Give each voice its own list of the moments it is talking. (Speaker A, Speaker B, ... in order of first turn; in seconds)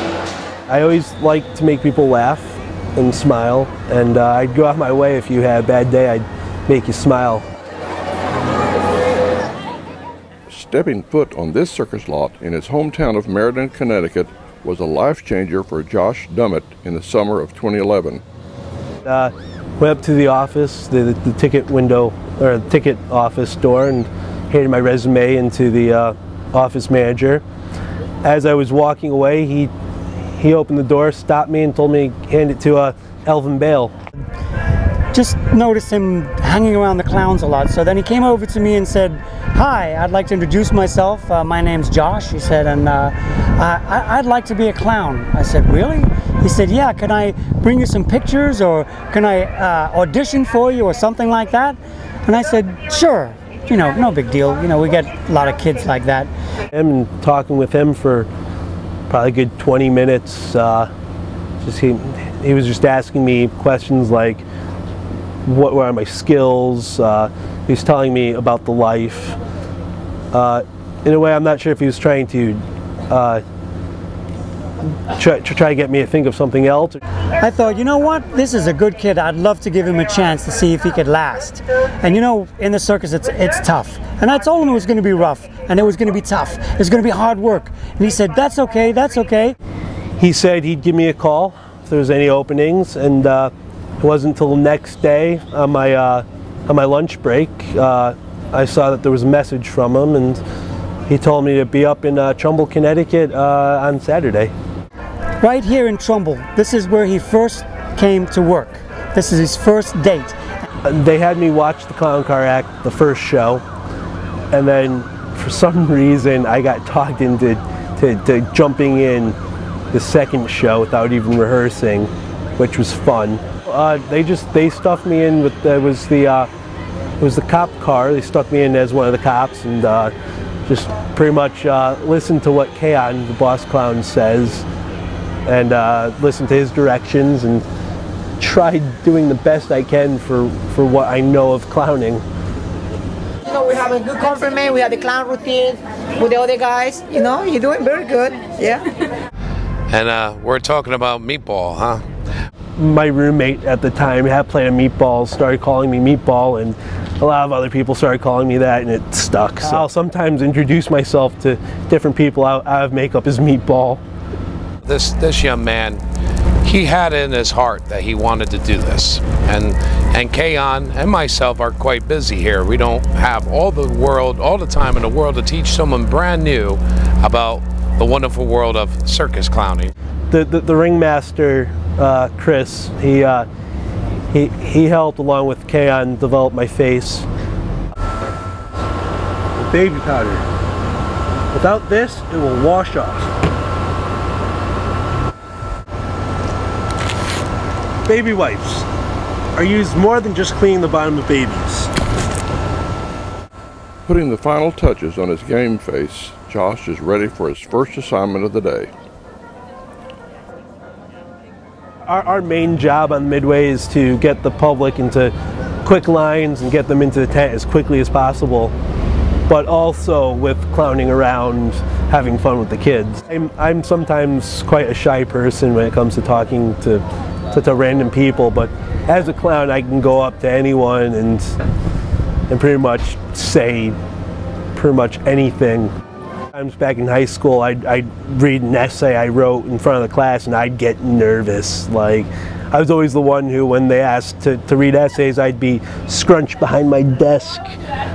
Speaker A: 0.7-7.5, 19.1-27.4, 28.2-29.7, 30.4-33.9, 56.7-58.3, 59.1-60.9, 61.6-64.4, 65.5-69.4, 70.3-73.4, 75.1-77.0, 90.2-100.4, 101.1-104.5, 110.8-113.6, 114.5-119.4, 119.9-126.5, 127.2-130.1, 130.7-134.7, 135.5-137.7, 138.4-142.2, 152.8-164.0, 180.3-183.5, 184.3-187.3, 189.6-190.4, 191.5-193.3, 198.1-198.9, 199.6-201.9, 212.1-215.3, 215.8-218.7, 219.5-231.6, 232.5-234.0, 234.8-235.9, 236.5-247.8
Speaker B: 10.5-18.2, 204.1-208.9
Speaker C: 35.1-56.3, 77.4-89.6, 105.4-110.4
Speaker D: 143.4-149.0
Speaker E: 149.9-152.0, 164.8-166.0, 166.6-179.9